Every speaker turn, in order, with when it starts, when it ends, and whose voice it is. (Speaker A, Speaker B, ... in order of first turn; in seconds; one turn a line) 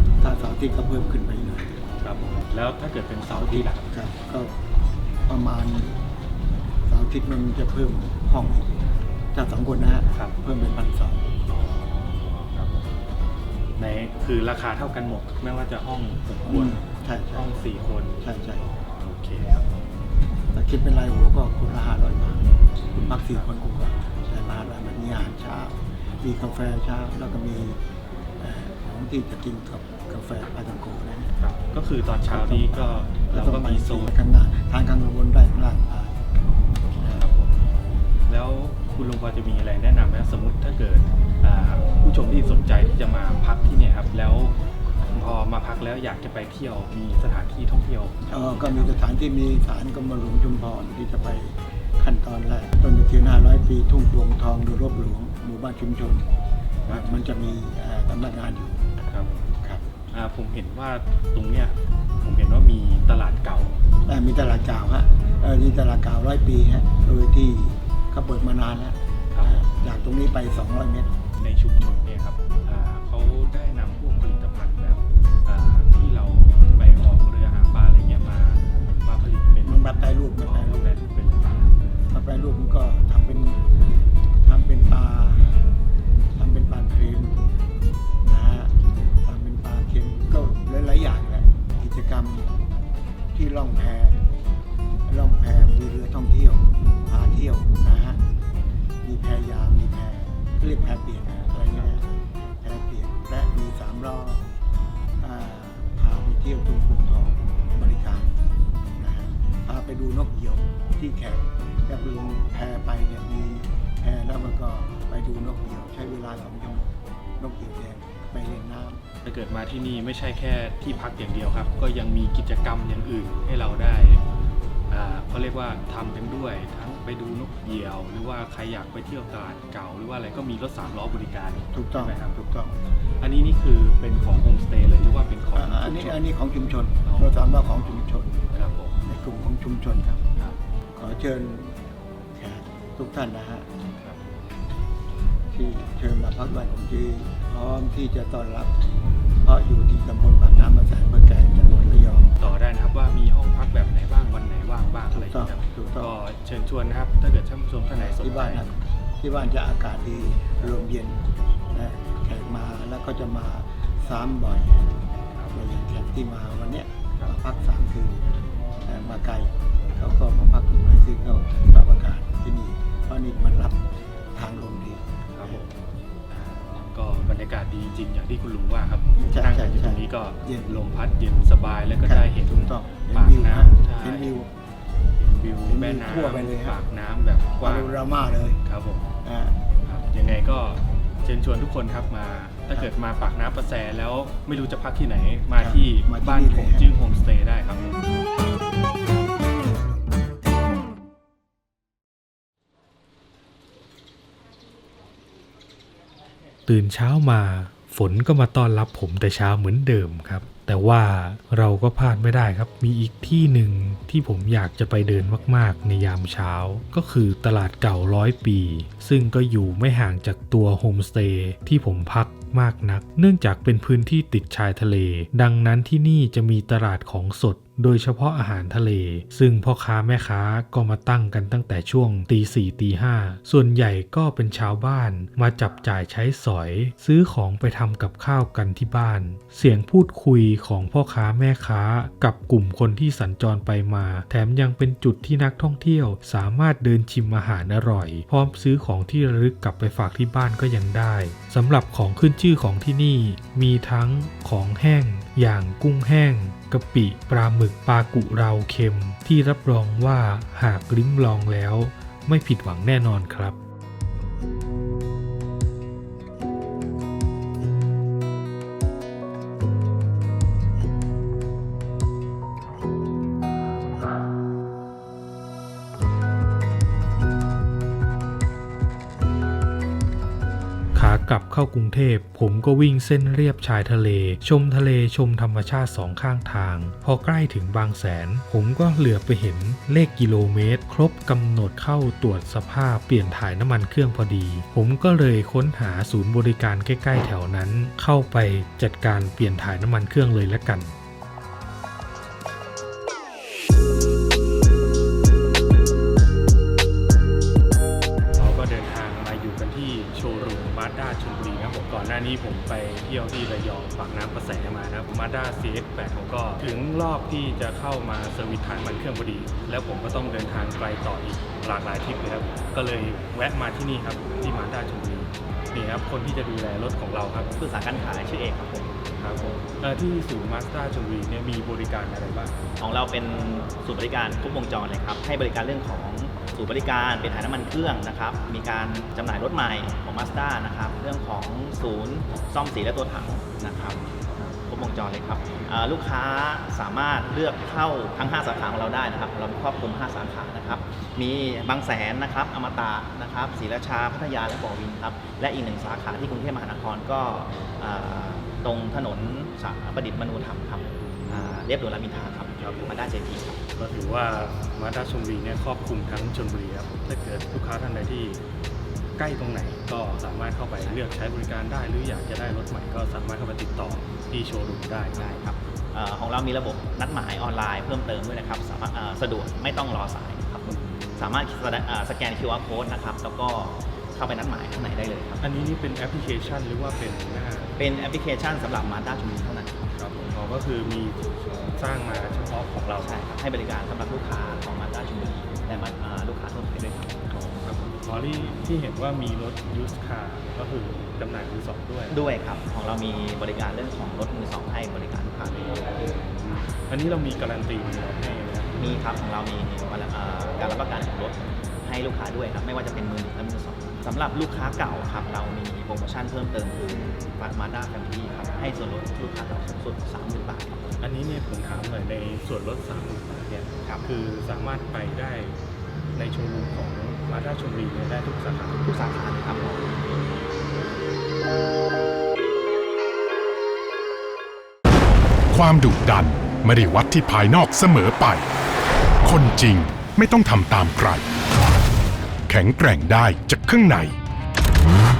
Speaker A: 0.2-1.7
Speaker B: 2.0-3.9
Speaker A: 3.3-4.5
Speaker A: 5.3-6.0
Speaker A: 6.9-8.8
Speaker A: 9.3-11.3
Speaker B: 10.1-10.4
Speaker B: 11.5-12.9
Speaker B: 13.8-16.8
Speaker A: 16.3-17.5
Speaker B: 17.3-19.6
Speaker A: 18.2-18.7
Speaker A: 20.5-27.8
Speaker B: 23.2-23.5
Speaker A: 28.4-31.3
Speaker B: 31.4-34.1
Speaker A: 32.2-36.2
Speaker A: 36.9-37.3
Speaker B: 37.1-37.5
Speaker B: 38.3-44.6
Speaker B: 45.1-49.0
Speaker A: 48.3-56.3
Speaker A: 56.9-58.9
Speaker B: 56.9-57.3
Speaker B: 59.1-63.8
Speaker A: 59.6-59.9
Speaker A: 64.1-71.1
Speaker B: 69.3-69.7
Speaker B: 71.3-81.8
Speaker A: 79.6-80.9
Speaker A: 82.1-83.7
Speaker A: 84.5-85.6
Speaker A: 86.3-87.4
Speaker A: 88.2-92.5
Speaker A: 93.3-94.2
Speaker A: 95.1-98.2
Speaker A: 99.0-102.1
Speaker B: 101.7-102.0
Speaker A: 102.6-104.5
Speaker A: 105.2-108.3
Speaker A: 109.0-119.0
Speaker B: 119.2-124.2
Speaker B: 124.9-132.4
Speaker A: 131.7-132.8
Speaker B: 133.2-136.2
Speaker A: 135.5-138.4
Speaker B: 138.5-139.0
Speaker A: 139.1-140.2
Speaker A: 140.9-141.8
Speaker A: 142.3-143.7
Speaker B: 144.0-144.3
Speaker A: 145.5-148.8
Speaker A: 149.4-152.3
Speaker B: 152.4-158.7
Speaker A: 155.1-156.2
Speaker A: 157.9-165.0
Speaker B: 165.3-165.6
Speaker A: 165.5-168.3
Speaker A: 168.8-173.8
Speaker A: 174.3-175.7
Speaker B: 175.3-175.7
Speaker B: 176.3-184.3
Speaker A: 179.2-180.8
Speaker A: 182.0-184.5
Speaker B: 185.2-188.0
Speaker A: 185.7-186.8
Speaker A: 187.6-188.6
Speaker B: 188.6-189.1
Speaker A: 189.2-189.6
Speaker B: 189.8-198.0
Speaker A: 195.6-196.8
Speaker C: 206.7-263.6
Speaker C: 280.9-300.9
Speaker B: 308.4-327.5
Speaker D: 327.6-329.0
Speaker B: 329.1-332.6
Speaker D: 332.8-363.6
Speaker B: 362.6-363.0
Speaker B: 363.8-368.4
Speaker B: 369.2-375.3
Speaker D: 370.8-371.0
Speaker D: 375.2-385.4
Speaker B: 380.7-381.1
Speaker B: 385.4-387.8
Speaker D: 387.8-389.8
Speaker B: 389.9-393.1
Speaker D: 393.0-397.3
Speaker B: 397.3-402.2
Speaker D: 402.1-405.9
Speaker B: 405.5-409.0
Speaker D: 408.8-420.9
Speaker B: 421.0-425.6
Speaker B: 426.1-428.8
Speaker D: 428.8-430.1
Speaker E: 435.5-438.5
Speaker E: 439.2-441.2
Speaker E: 442.5-444.2